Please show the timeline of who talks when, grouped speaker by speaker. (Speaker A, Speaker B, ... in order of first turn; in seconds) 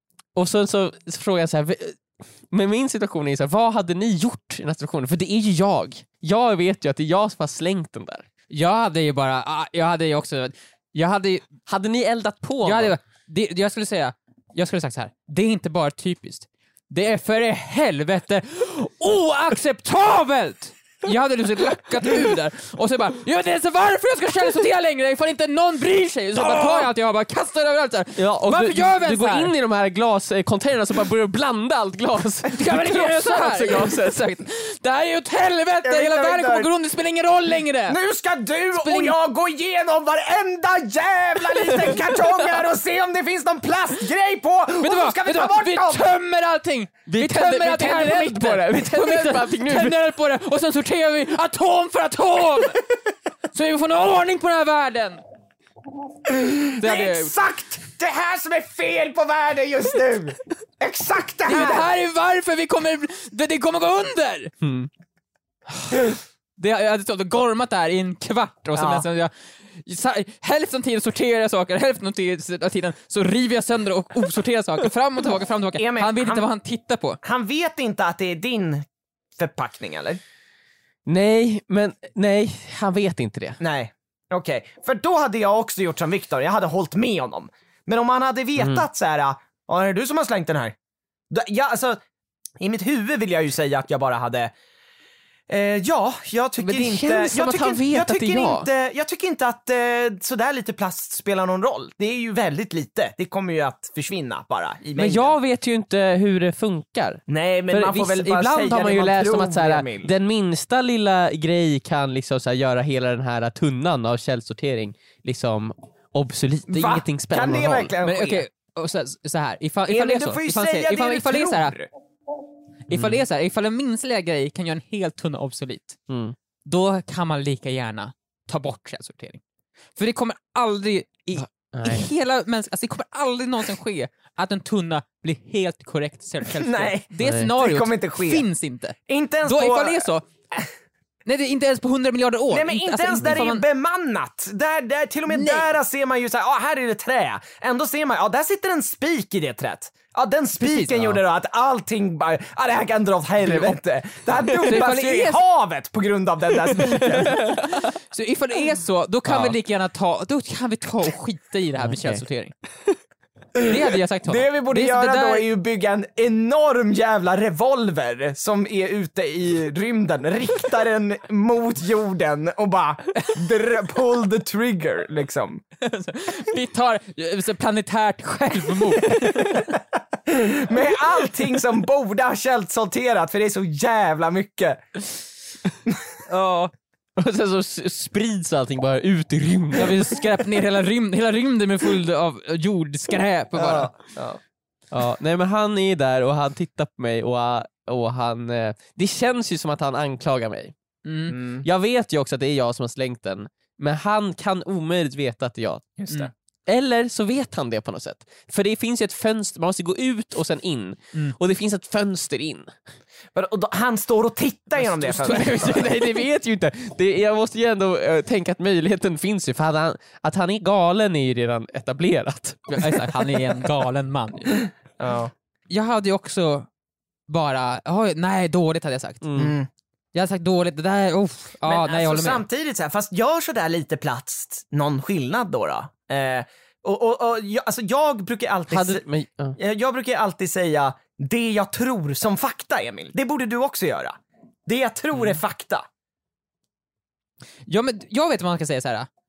Speaker A: 0.4-8.2, 11.7-12.9, 26.4-26.9, 28.1-34.4, 41.9-42.1, 47.0-50.0, 64.6-64.9, 81.0-83.6, 88.6-88.8, 96.6-98.7, 105.0-117.9, 122.9-123.2, 126.1-126.3, 131.3-132.1, 137.2-137.5, 150.8-151.1, 153.4-153.8, 156.8-157.8, 159.2-159.6, 161.8-162.2, 187.2-190.2, 194.9-200.7, 201.6-205.9, 206.7-212.7, 214.8-223.3, 229.2-229.6, 238.7-239.6
Speaker B: 8.5-11.4, 12.6-29.5, 32.5-38.0, 38.7-39.1, 44.8-52.8, 53.5-55.2, 56.8-57.3, 61.5-64.5, 65.7-77.2, 118.0-121.8, 122.9-126.0, 126.7-129.4, 130.0-140.2, 141.2-143.6, 145.3-145.7, 154.6-155.4, 157.0-162.5, 163.6-165.4, 175.8-179.8, 186.3-186.7, 189.8-194.0, 201.1-201.4, 222.7-224.6, 225.7-226.7, 227.3-229.2, 230.1-232.4, 247.7-249.1
Speaker C: 35.8-36.7, 37.9-46.1, 56.2-61.9, 68.7-69.0, 75.8-76.5, 77.2-80.2, 83.6-90.7, 91.3-92.0, 92.6-94.5, 95.5-105.3, 107.3-110.1, 116.7-118.5, 119.9-121.9, 136.4-138.5, 139.1-140.1, 142.5-157.6, 164.2-175.6, 180.3-185.1, 193.6-193.9, 201.3-201.6, 206.0-206.3, 213.3-216.0, 225.0-225.3, 229.4-229.7, 231.6-239.0, 239.6-245.9